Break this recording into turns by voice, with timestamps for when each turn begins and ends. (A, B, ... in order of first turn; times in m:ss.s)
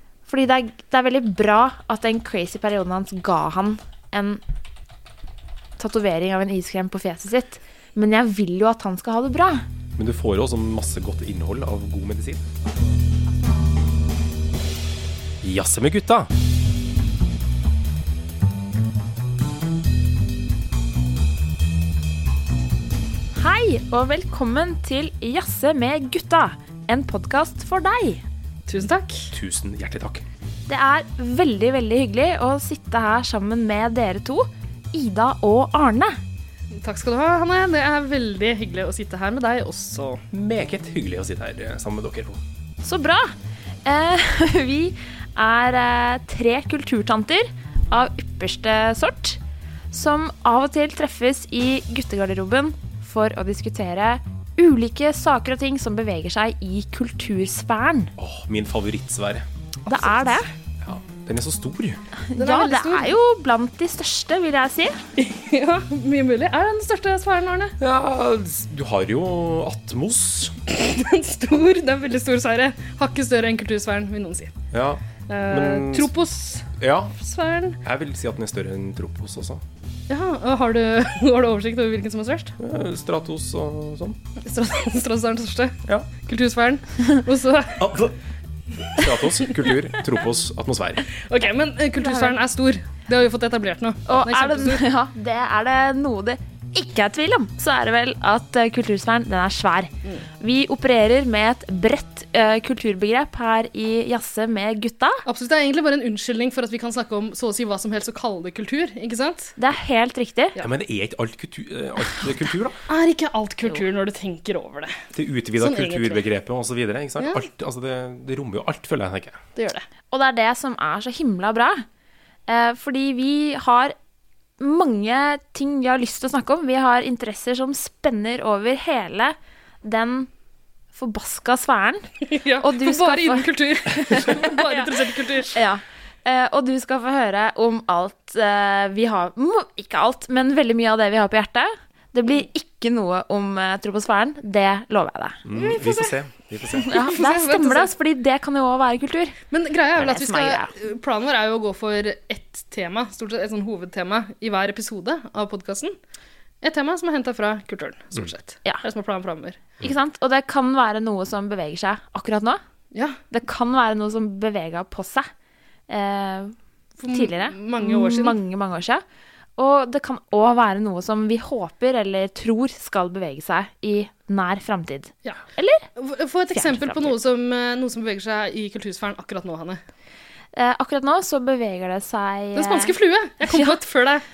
0:00.3-0:04.4 A
0:05.8-0:09.7 A
0:10.0-0:12.4 B
0:15.4-0:16.3 B
0:23.4-0:28.2 A
0:28.7-0:29.3 C
0:29.3-0:30.3 B
0:30.7-0:36.2 A
0:36.7-0:40.2 C
0:40.3-0:42.4 B
0:42.8-0:43.3 A
0:43.8-0:49.4 A
0:49.9-0:58.1 A
0:58.2-0:59.5 B
0:59.9-1:00.5 A
1:00.8-1:02.0 B
1:02.3-1:05.0 A
1:02.4-1:03.2 C
1:05.2-1:07.8 C
1:07.8-1:10.6 B
1:10.7-1:14.5 C
1:14.7-1:16.1 B
1:15.3-1:17.8 C
1:16.8-1:17.2 B
1:17.8-1:19.6 B
1:20.1-1:22.6 C
1:22.6-1:24.2 B
1:24.4-1:27.9 C
1:27.8-1:28.2 B
1:28.9-1:31.1 B
1:31.2-1:34.8 C
1:32.0-1:32.4 A
1:34.1-1:45.2 A
1:45.3-1:49.5 C
1:49.6-1:50.6 A
1:50.6-1:52.8 B
1:52.9-1:55.0 C
1:55.1-1:59.4 B
1:55.6-1:56.3 C
1:59.6-1:59.8 C
2:00.1-2:01.8 A
2:02.5-2:04.0 A
2:04.6-2:10.3 A
2:10.9-2:12.1 A
2:12.3-2:15.6 C
2:12.6-2:14.9 A
2:15.5-2:25.4 A
2:25.4-2:27.0 B
2:25.5-2:26.2 C
2:26.8-2:27.9 C
2:26.9-2:29.4 A
2:29.5-2:36.0 C
2:30.0-2:30.7 A
2:36.6-2:39.6 C
2:39.8-2:42.6 A
2:43.3-2:45.3 A
2:45.9-2:49.0 A
2:47.0-2:48.4 C
2:49.6-2:55.9 A
2:56.0-2:59.8 C
2:56.5-2:57.2 A
3:00.5-3:03.8 A
3:02.6-3:04.2 C